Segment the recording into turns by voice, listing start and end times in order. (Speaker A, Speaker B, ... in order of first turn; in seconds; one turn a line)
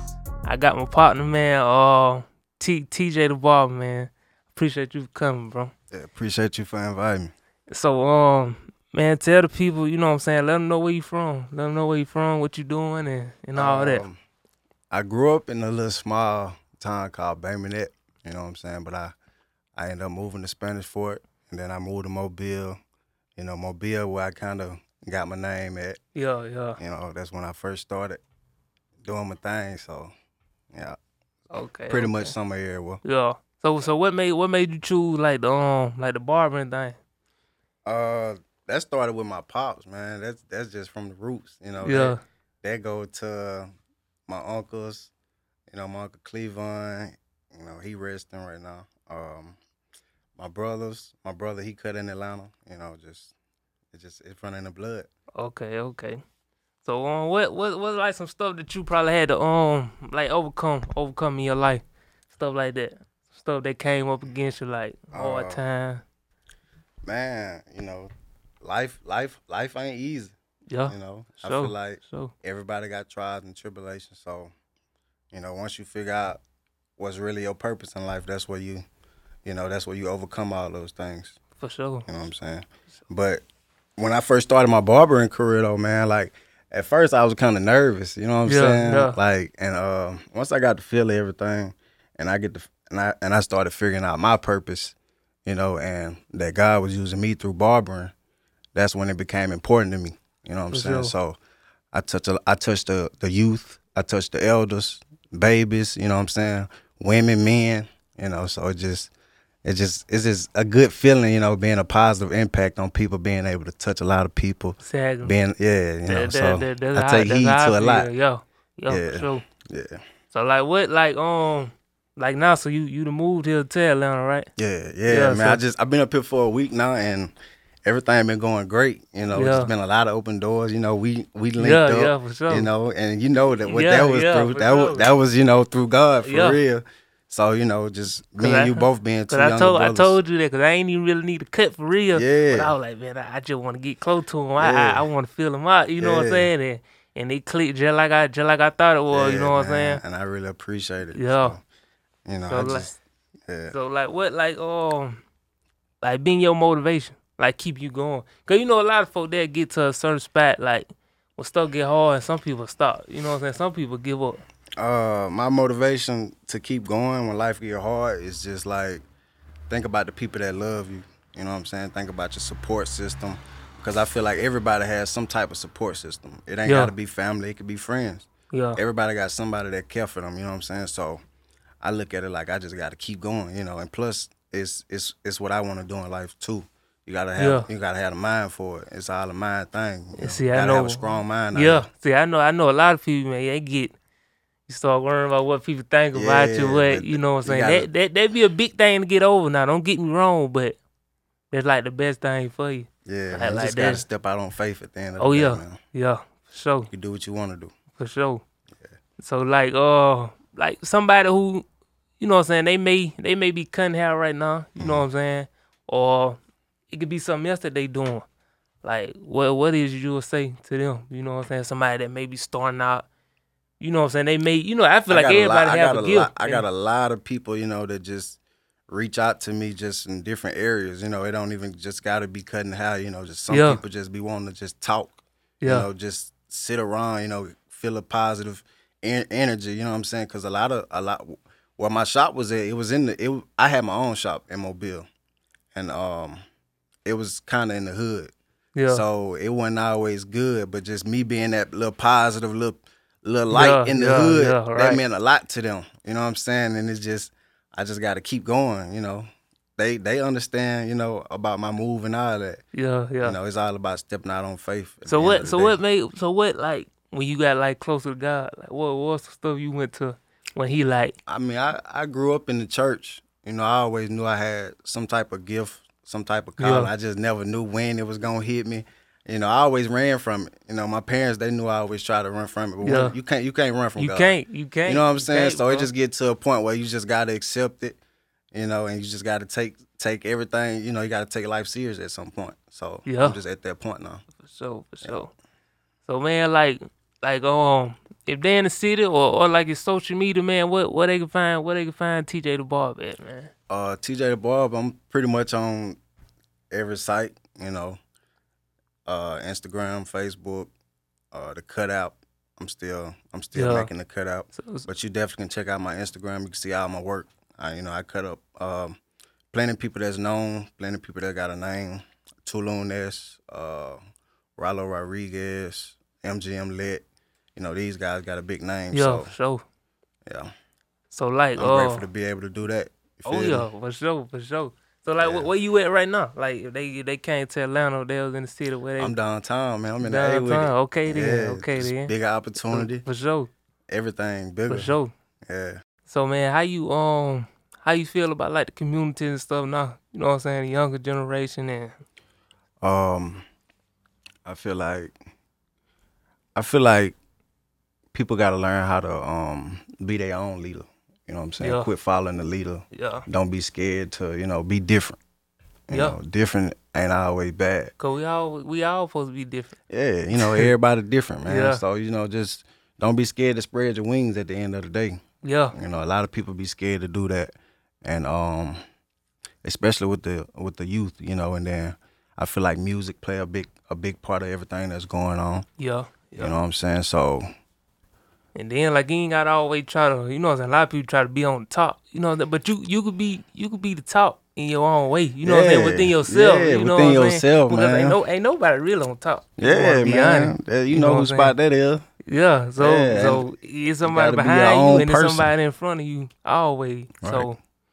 Speaker A: 0.4-5.7
Speaker B: 5.9-7.3
Speaker A: 7.7-14.1
Speaker B: 13.5-14.2
Speaker B: 14.9-19.1
Speaker B: 19.8-22.8
Speaker B: 23.4-26.0
Speaker A: 26.1-26.8
Speaker B: 26.8-28.2
Speaker B: 29.0-30.1
Speaker B: 30.7-31.0
Speaker A: 31.5-32.3
Speaker B: 31.9-33.0
Speaker A: 33.0-37.0
Speaker B: 37.9-43.7
Speaker A: 41.8-42.2
Speaker B: 44.3-45.1
Speaker B: 45.7-49.6
Speaker B: 50.4-53.3
Speaker B: 53.9-55.1
Speaker A: 55.4-56.2
Speaker A: 56.8-66.0
Speaker B: 65.1-65.6
Speaker B: 67.0-68.1
Speaker B: 68.6-70.3
Speaker A: 70.7-72.3
Speaker B: 70.9-74.5
Speaker B: 75.3-76.4
Speaker B: 77.0-78.8
Speaker B: 79.4-81.4
Speaker A: 81.5-82.1
Speaker B: 82.1-83.4
Speaker B: 84.0-94.9
Speaker A: 88.4-89.2
Speaker B: 95.5-98.1
Speaker B: 98.7-101.4
Speaker A: 100.7-101.1
Speaker B: 101.9-109.1
Speaker B: 109.6-118.1
Speaker A: 114.8-115.3
Speaker A: 116.1-119.5
Speaker B: 118.9-120.0
Speaker A: 120.3-124.5
Speaker B: 124.6-127.3
Speaker A: 125.1-125.6
Speaker B: 127.8-140.2
Speaker A: 129.3-129.7
Speaker A: 131.6-132.7
Speaker A: 133.7-135.1
Speaker A: 136.2-136.6
Speaker A: 138.4-150.0
Speaker B: 142.1-142.7
Speaker B: 144.6-145.1
Speaker B: 146.0-146.5
Speaker B: 149.1-151.6
Speaker A: 151.1-151.6
Speaker B: 152.2-152.9
Speaker A: 152.4-152.9
Speaker B: 153.5-153.7
Speaker A: 153.7-155.2
Speaker A: 156.0-164.4
Speaker B: 164.8-169.0
Speaker B: 169.7-181.2
Speaker A: 176.6-176.9
Speaker A: 178.5-178.8
Speaker B: 181.8-191.9
Speaker A: 187.4-187.7
Speaker A: 190.2-193.9
Speaker A: 194.7-200.8
Speaker B: 196.1-197.9
Speaker A: 201.5-204.0
Speaker B: 203.1-205.8
Speaker A: 205.2-206.9
Speaker B: 206.9-207.7
Speaker A: 207.9-208.4
Speaker A: 209.2-211.6
Speaker A: 212.2-216.4
Speaker B: 214.8-215.0
Speaker A: 216.9-218.2
Speaker A: 218.8-223.1
Speaker A: 223.8-226.7
Speaker B: 225.1-245.1
Speaker A: 233.5-233.8
Speaker A: 235.6-235.9
Speaker B: 245.7-246.4
Speaker B: 247.0-248.3
Speaker A: 248.7-249.0
Speaker B: 248.9-262.6
Speaker A: 253.5-255.0
Speaker A: 262.7-263.4
Speaker B: 263.2-265.8
Speaker A: 265.1-271.1
Speaker B: 271.3-288.0
Speaker A: 276.6-276.9
Speaker A: 282.8-283.1
Speaker A: 284.0-285.9
Speaker B: 288.5-294.2
Speaker A: 293.1-293.4
Speaker A: 294.4-295.3
Speaker A: 296.1-303.5
Speaker B: 303.7-306.0
Speaker B: 306.7-308.0
Speaker B: 309.1-310.7
Speaker B: 311.3-319.0
Speaker A: 313.5-313.9
Speaker A: 314.6-314.9
Speaker B: 319.5-324.0
Speaker B: 324.6-327.0
Speaker B: 327.6-329.3
Speaker A: 328.9-329.6
Speaker A: 331.1-332.1
Speaker B: 331.6-333.6
Speaker A: 333.2-339.1
Speaker B: 335.2-335.5
Speaker B: 339.0-343.0
Speaker A: 340.0-342.1
Speaker A: 342.6-343.5
Speaker B: 343.9-344.9
Speaker A: 344.7-345.1
Speaker B: 345.5-345.8
Speaker A: 346.1-352.0
Speaker B: 352.8-353.4
Speaker B: 354.4-355.1
Speaker B: 356.5-357.2
Speaker B: 358.1-365.2
Speaker A: 361.6-361.9
Speaker A: 362.9-363.2
Speaker B: 365.9-367.9
Speaker A: 365.9-366.1
Speaker A: 368.0-369.8
Speaker B: 369.9-375.2
Speaker A: 370.3-370.7
Speaker A: 371.4-371.8
Speaker A: 375.4-375.7
Speaker B: 375.7-378.8
Speaker B: 379.6-385.7
Speaker A: 385.8-386.5
Speaker B: 386.4-387.4
Speaker A: 388.5-401.5
Speaker B: 395.4-398.2
Speaker B: 399.6-402.0
Speaker A: 402.3-407.6
Speaker B: 402.8-403.5
Speaker B: 404.0-405.5
Speaker B: 407.2-407.5